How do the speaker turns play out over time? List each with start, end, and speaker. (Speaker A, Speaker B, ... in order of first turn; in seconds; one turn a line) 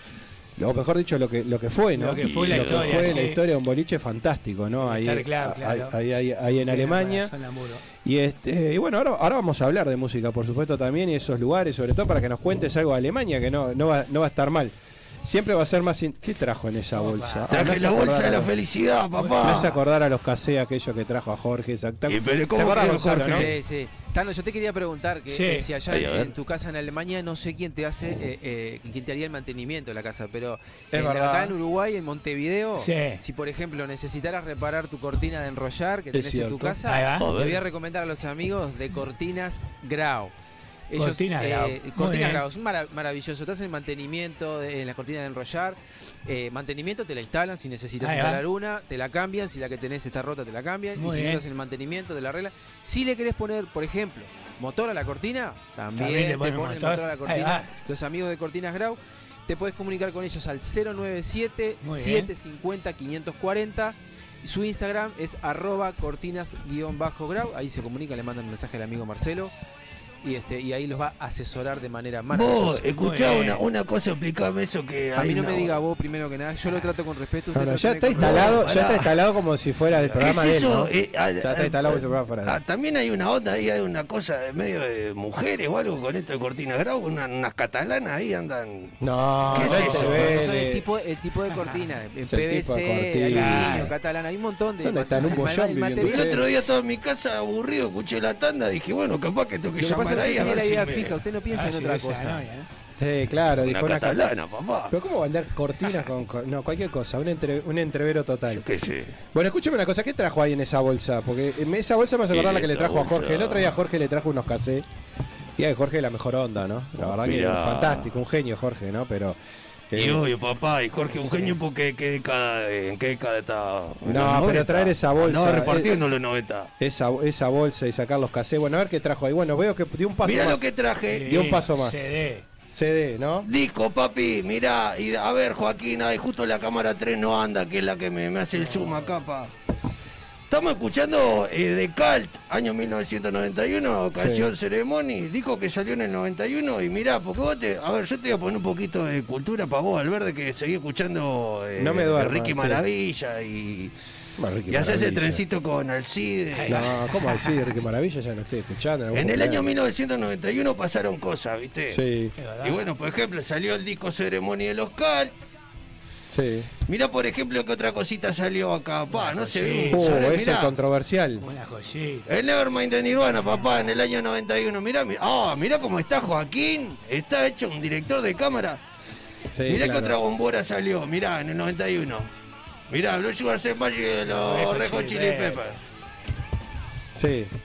Speaker A: 0.6-7.3
Speaker B: 1.9-3.4
Speaker C: 2.2-3.1
Speaker B: 4.8-5.9
Speaker B: 6.7-7.8
Speaker A: 8.0-18.5
Speaker B: 17.0-17.8
Speaker C: 17.5-19.8
Speaker B: 19.1-19.6
Speaker A: 19.4-23.5
Speaker C: 22.1-23.5
Speaker D: 23.1-40.3
Speaker B: 25.3-25.7
Speaker C: 25.9-26.3
Speaker A: 30.9-31.6
Speaker B: 32.8-33.2
Speaker A: 36.1-36.8
Speaker B: 36.9-37.3
Speaker C: 37.2-37.6
Speaker D: 40.9-69.5
Speaker B: 41.0-42.4
Speaker B: 48.0-48.4
Speaker B: 50.9-51.4
Speaker B: 56.0-57.7
Speaker B: 61.8-62.3
Speaker D: 70.2-72.9
Speaker C: 72.3-75.7
Speaker B: 73.0-73.6
Speaker D: 75.2-78.7
Speaker A: 77.5-82.6
Speaker C: 78.1-79.1
Speaker C: 80.2-89.0
Speaker A: 89.0-90.8
Speaker C: 89.5-90.3
Speaker B: 89.5-90.4
Speaker D: 89.7-96.4
Speaker A: 92.2-93.9
Speaker B: 93.3-93.9
Speaker A: 94.8-96.5
Speaker C: 96.0-101.2
Speaker D: 99.8-102.4
Speaker B: 101.5-102.7
Speaker A: 103.0-104.3
Speaker C: 103.6-104.9
Speaker A: 104.9-108.7
Speaker C: 108.5-109.1
Speaker A: 109.3-114.8
Speaker C: 112.3-113.7
Speaker A: 115.6-119.4
Speaker C: 117.0-118.1
Speaker A: 119.9-120.2
Speaker C: 119.9-126.7
Speaker B: 121.2-121.6
Speaker A: 124.0-126.0
Speaker A: 126.8-130.7
Speaker C: 130.2-131.4
Speaker B: 131.1-132.4
Speaker A: 131.2-132.1
Speaker A: 132.7-133.5
Speaker C: 133.4-139.5
Speaker B: 138.6-139.1
Speaker C: 140.5-153.9
Speaker A: 144.1-144.5
Speaker A: 151.8-152.8
Speaker A: 154.4-155.4
Speaker C: 154.7-157.0
Speaker B: 156.5-157.7
Speaker A: 156.7-159.7
Speaker C: 159.1-162.0
Speaker A: 161.9-162.3
Speaker B: 162.4-162.8
Speaker C: 162.6-165.3
Speaker A: 166.3-166.7
Speaker C: 166.9-170.7
Speaker B: 169.1-170.3
Speaker A: 169.9-171.4
Speaker B: 171.4-172.3
Speaker C: 172.3-178.8
Speaker A: 179.5-180.2
Speaker C: 179.7-182.3
Speaker C: 182.9-185.8
Speaker B: 184.3-185.6
Speaker A: 187.2-187.5